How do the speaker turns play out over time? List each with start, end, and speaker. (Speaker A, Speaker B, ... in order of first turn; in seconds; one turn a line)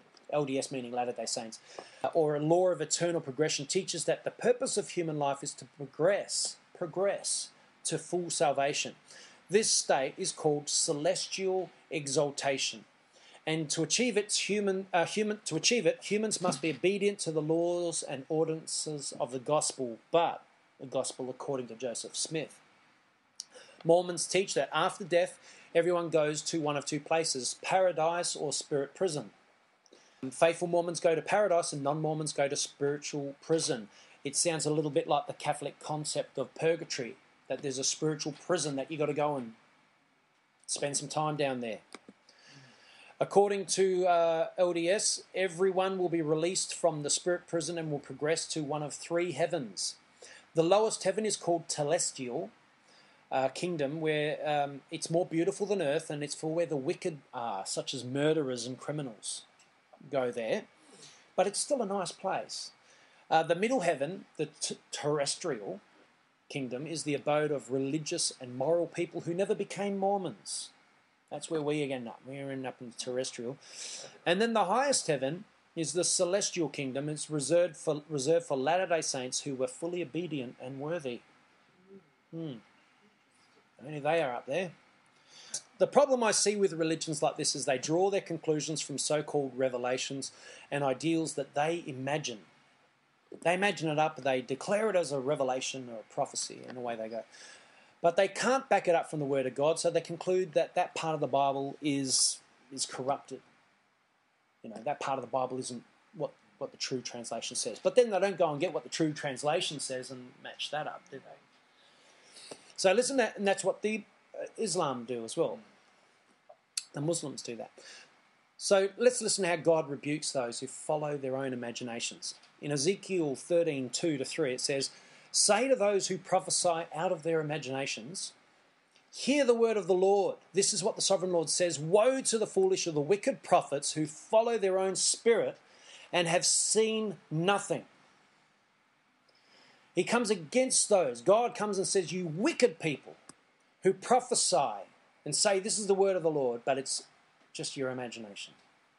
Speaker A: 0.3-9.0
Speaker A: 9.5-12.9
Speaker A: 13.4-22.6
Speaker A: 23.8-29.3
Speaker A: 30.2-39.6
Speaker A: 40.7-41.8
Speaker A: 43.2-50.0
Speaker A: 50.5-52.5
Speaker A: 53.3-59.4
Speaker A: 60.1-60.7
Speaker A: 61.4-62.7
Speaker A: 63.3-65.8
Speaker A: 66.5-70.7
Speaker A: 71.3-81.2
Speaker A: 82.3-82.6
Speaker A: 83.8-84.7
Speaker A: 85.8-92.5
Speaker A: 93.4-97.3
Speaker A: 98.0-103.4
Speaker A: 104.6-111.4
Speaker A: 112.8-115.6
Speaker A: 116.9-117.8
Speaker A: 118.6-128.3
Speaker A: 129.1-135.6
Speaker A: 136.1-137.9
Speaker A: 139.9-143.2
Speaker A: 143.8-148.6